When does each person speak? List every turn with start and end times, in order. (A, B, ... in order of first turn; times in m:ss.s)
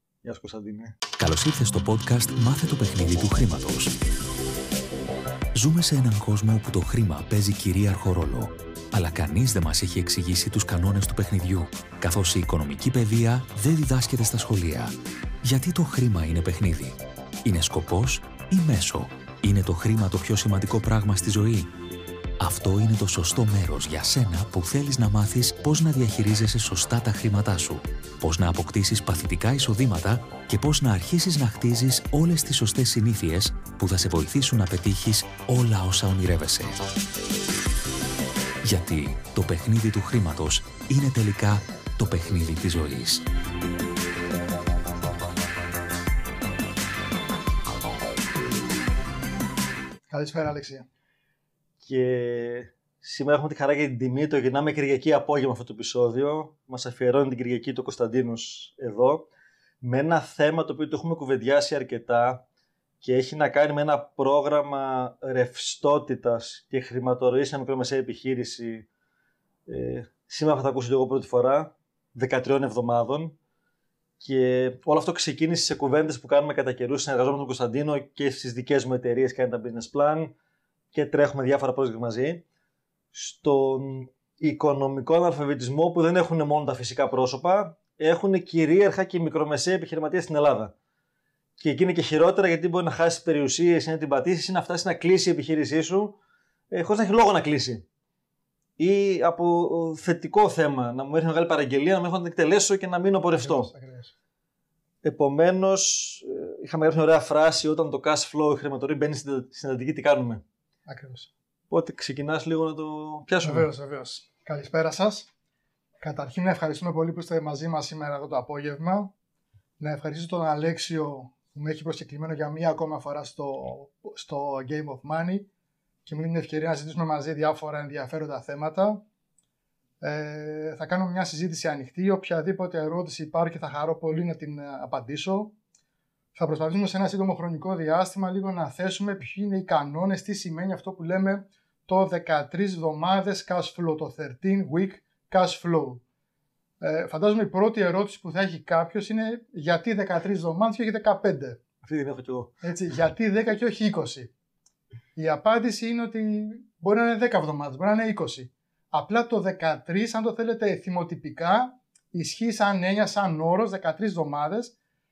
0:00.2-0:01.0 A
0:01.2-0:04.0 B
0:05.6-0:21.7 B
0:22.4-0:36.8 B
0:38.6-0:43.2 B
0:50.1-0:50.9 C
0:51.8-0:59.3 A
0:59.8-1:02.4 A
1:03.0-1:08.9 A
1:09.7-1:13.4 A
1:14.2-1:20.3 A
1:20.9-1:22.4 A
1:23.1-1:30.7 A
1:31.6-1:36.2 A
1:36.7-1:37.8 A
1:38.8-1:43.7 A
1:43.4-1:44.1 C
1:45.0-1:50.4 A
1:50.9-1:51.3 C
1:51.7-1:53.7 A
1:53.4-1:55.3 C
1:56.0-1:59.1 C
1:59.8-2:05.5 C
2:06.1-2:09.0 C
2:10.0-2:15.5 C
2:16.4-2:26.0 C
2:26.8-2:31.6 C
2:31.8-2:32.6 A
2:32.6-2:34.3 C
2:35.2-2:44.8 C